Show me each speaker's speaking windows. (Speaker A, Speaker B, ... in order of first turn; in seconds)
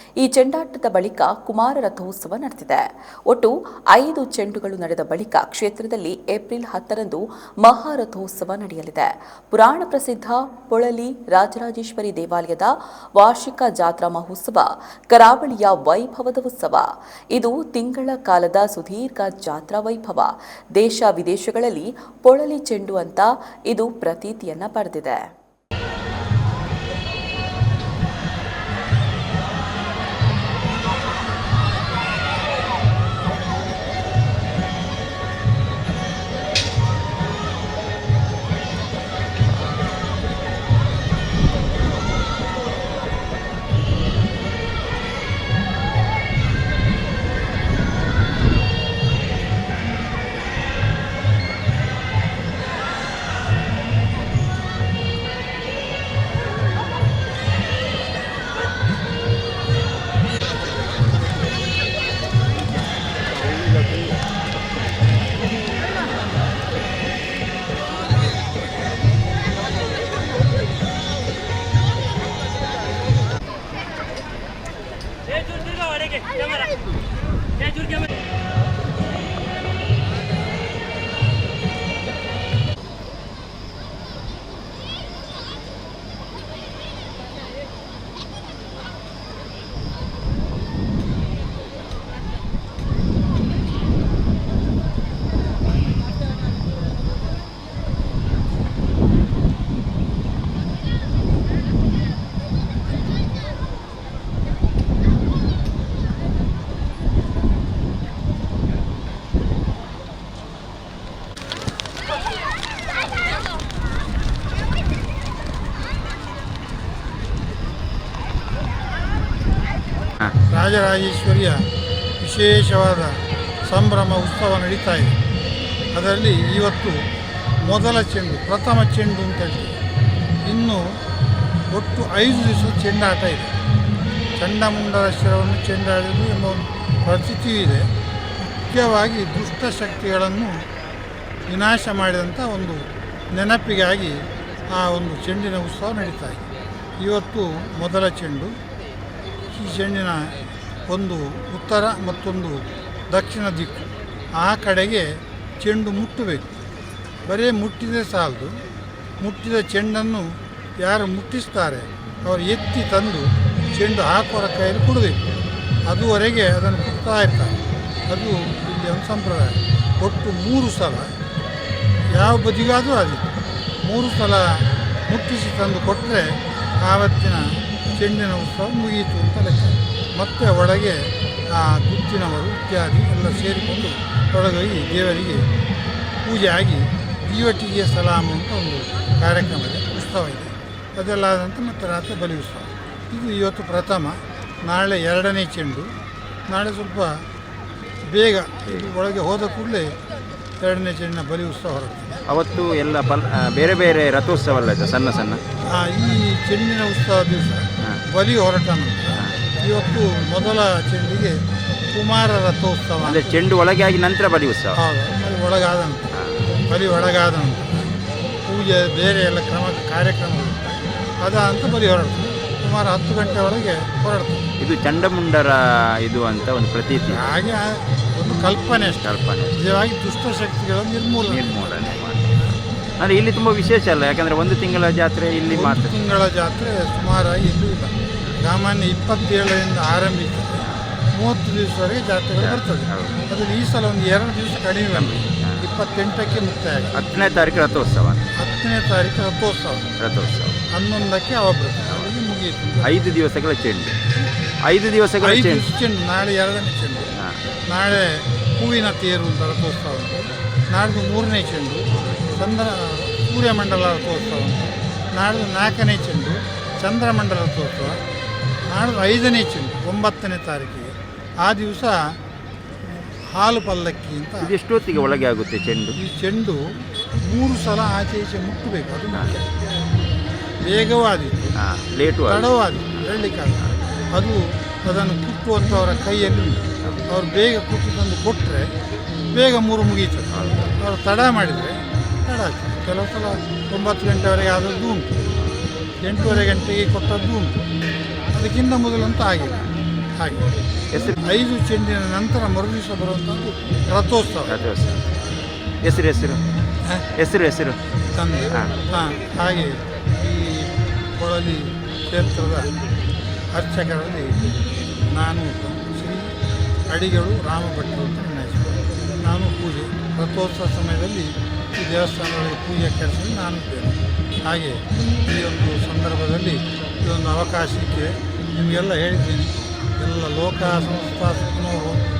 Speaker A: 0.2-25.2
Speaker B: 120.5-121.6, 122.2-123.1, 123.7-125.1, 125.9-127.0, 127.7-129.7, 130.5-130.8, 131.7-133.5, 134.4-137.8, 138.7-140.5, 141.5-146.4, 147.0-148.5, 149.5-150.3, 150.9-156.5, 157.3-158.5, 159.2-165.3, 165.9-167.6, 168.1-171.1, 172.1-173.2, 173.8-177.4, 178.0-185.4, 186.2-195.9, 196.5-197.1, 198.1-199.9, 200.6-202.1, 205.7-211.4, 211.9-213.4, 214.8-216.1, 216.7-217.8, 218.4-224.4, 227.1-231.5, 235.5-246.9, 248.4-249.9, 250.7-253.0, 255.2-257.1, 257.7-264.6, 265.1-268.0, 268.7-272.0, 273.4-274.5, 276.0-276.6, 277.2-279.4, 280.6-281.5, 282.3-288.7, 289.3-295.1, 296.0-297.6, 298.3-299.6, 300.2-300.5, 301.2-304.5, 308.1-312.7, 313.5-314.3, 315.1-316.3, 316.9-332.0
Speaker C: 202.3-205.4, 213.1-214.8, 216.1-216.4, 224.6-227.3, 229.0-229.6, 231.2-232.2, 233.0-236.0, 242.4-243.2, 244.9-245.7, 247.0-248.2, 250.0-250.6, 251.8-252.1, 252.8-253.9, 254.7-255.6, 261.9-262.3, 274.4-276.0, 281.6-283.0, 290.3-290.7, 300.9-301.2, 304.5-305.0, 305.8-306.4, 307.2-307.8